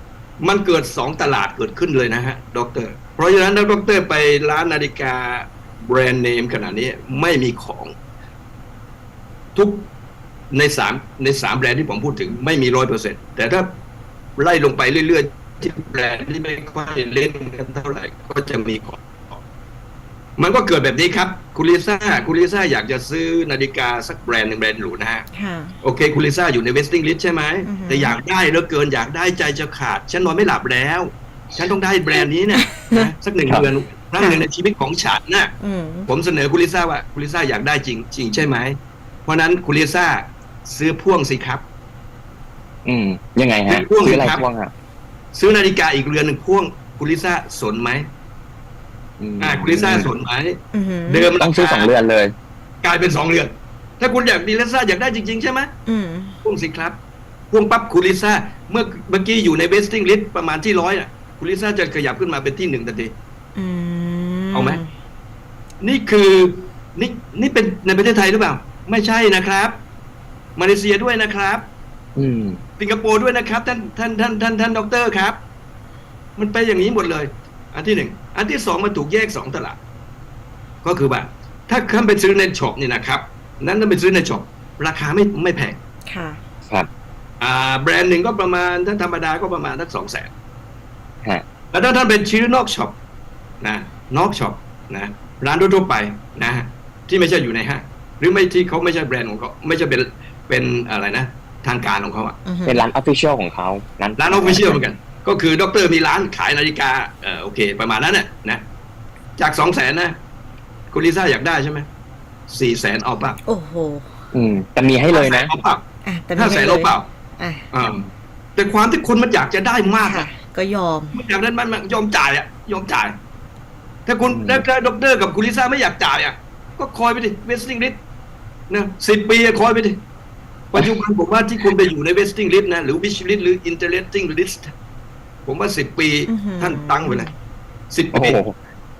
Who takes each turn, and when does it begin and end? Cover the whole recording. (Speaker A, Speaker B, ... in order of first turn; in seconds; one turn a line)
Speaker A: 0.4-7.9
Speaker A: 9.5-9.9
Speaker A: 10.5-13.8
Speaker A: 14.4-19.4
Speaker A: 20.4-25.3
Speaker B: 25.3-25.8
Speaker A: 25.8-35.5
Speaker B: 27.7-28.1
Speaker B: 32.2-33.1
Speaker B: 35.6-36.1
Speaker A: 36.1-41.6
Speaker C: 42.9-44.7
Speaker A: 43.7-44.4
Speaker A: 45.3-48.1
Speaker C: 49.2-50.1
Speaker A: 49.4-51.9
Speaker B: 50.7-51.3
Speaker C: 51.4-52.3
Speaker A: 52.8-55.7
Speaker B: 55.9-56.4
Speaker A: 56.4-57.0
Speaker A: 57.5-63.1
Speaker B: 63.6-64.9
Speaker A: 64.5-64.8
Speaker A: 65.8-69.8
Speaker A: 70.6-71.7
Speaker C: 72.2-72.6
Speaker A: 72.8-75.4
Speaker A: 76.4-79.8
Speaker A: 80.8-85.8
Speaker B: 86.1-86.4
Speaker A: 87.4-90.3
Speaker A: 91.7-93.0
Speaker A: 93.6-102.4
Speaker B: 102.5-102.8
Speaker C: 102.7-104.8
Speaker A: 104.2-108.6
Speaker A: 109.4-110.2
Speaker A: 110.9-111.9
Speaker A: 112.5-113.4
Speaker B: 113.5-114.2
Speaker C: 114.3-115.5
Speaker A: 115.1-115.8
Speaker B: 116.0-117.7
Speaker A: 116.3-117.1
Speaker A: 117.7-118.0
Speaker A: 118.6-120.3
Speaker B: 120.0-121.2
Speaker A: 121.1-123.2
Speaker A: 124.1-128.0
Speaker C: 124.3-124.6
Speaker A: 128.7-130.0
Speaker A: 130.7-134.7
Speaker A: 135.4-137.3
Speaker B: 136.3-137.3
Speaker A: 137.9-138.4
Speaker C: 138.1-138.6